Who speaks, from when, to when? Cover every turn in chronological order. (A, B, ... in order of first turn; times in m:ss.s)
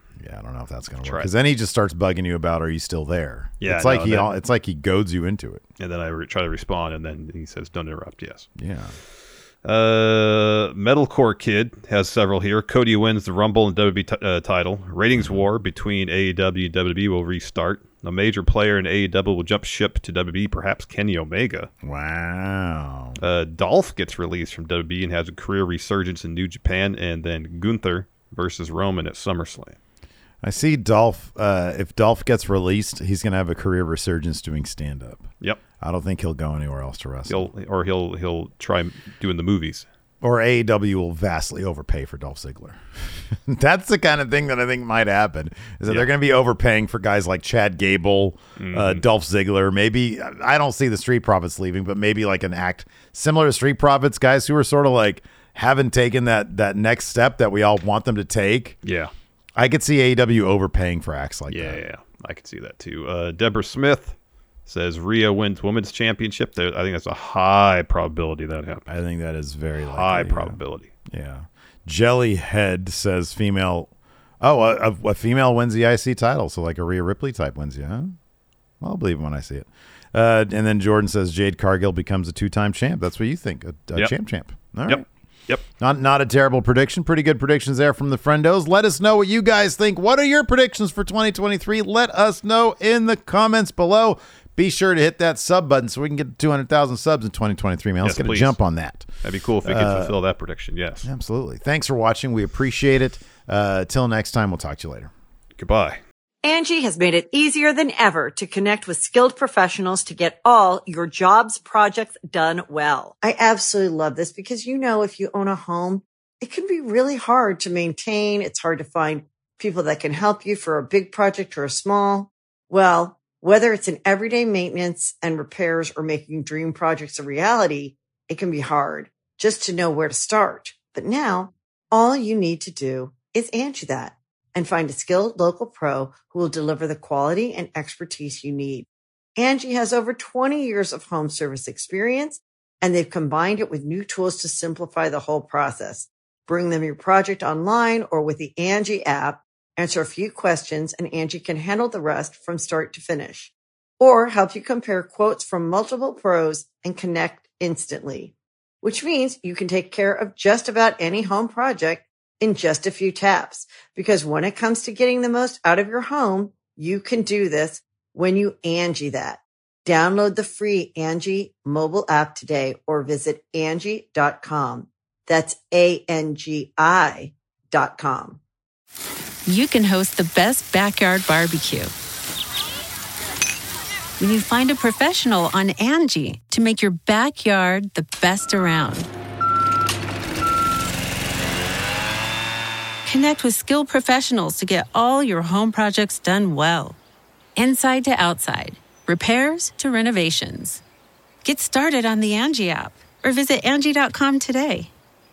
0:00.2-0:05.6 A
0:01.0-0:01.3 B
0:03.6-0:04.3 B
0:05.8-0:08.5 B
0:08.6-0:08.9 A
0:09.6-0:21.7 B
0:15.1-0:15.4 A
0:21.8-0:23.2 A
0:23.2-0:29.8 B
0:30.4-0:35.3 A
0:35.8-0:37.5 A
0:37.3-0:39.8 B
0:40.2-0:58.8 A
0:48.6-0:49.0 B
0:58.8-0:59.1 B
0:59.6-1:01.8 A
1:01.5-1:04.1 B
1:04.6-1:08.8 B
1:08.9-1:18.1 A
1:09.8-1:10.9 B
1:18.8-1:25.0 A
1:24.8-1:25.6 B
1:25.8-1:39.1 A
1:38.0-1:38.5 B
1:39.2-1:41.1 B
1:39.6-1:40.1 A
1:41.0-1:45.1 A
1:45.6-1:46.0 B
1:46.4-2:58.4 C
2:59.4-3:01.9 D
3:04.2-3:09.1 D
3:13.0-3:17.0 D
3:17.6-3:20.8 D
3:21.4-3:24.9 D